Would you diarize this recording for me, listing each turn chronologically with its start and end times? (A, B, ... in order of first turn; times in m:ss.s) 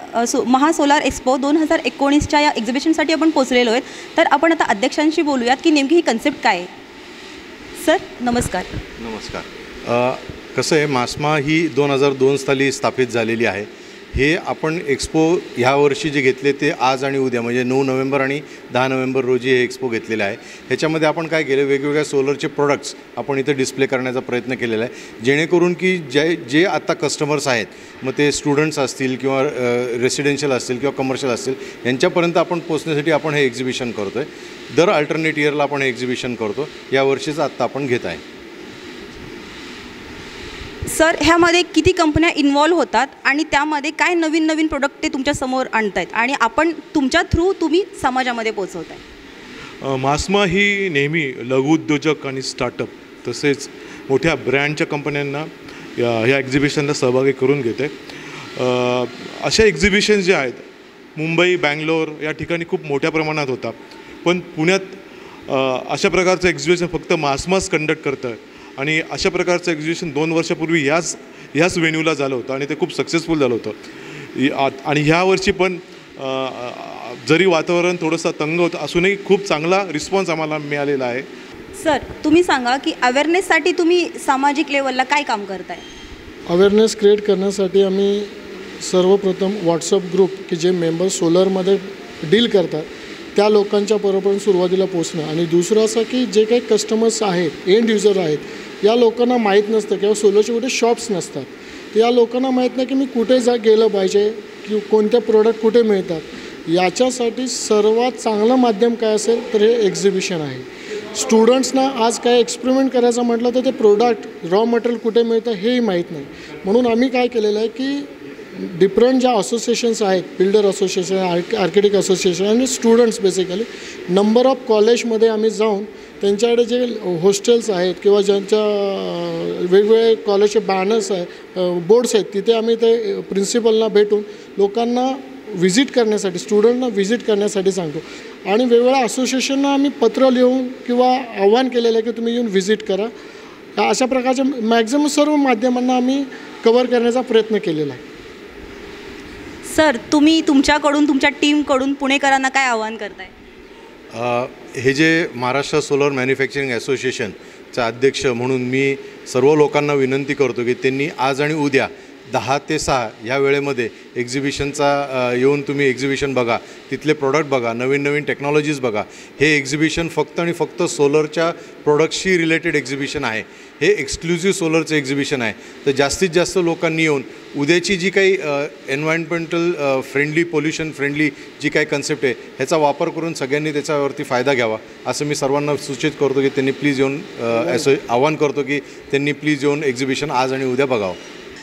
0:00.1-0:06.7 A
0:07.8-0:08.8 A
0:09.0-0:38.2 B
0:40.8-0:49.0 A
0:49.8-0:57.9 C
0:58.6-1:00.6 C
1:01.2-1:13.8 C
1:14.3-1:21.3 C
1:21.8-1:25.9 A
1:26.5-2:23.1 D
2:23.8-2:28.0 D
2:29.7-2:33.3 A
2:34.1-3:11.2 B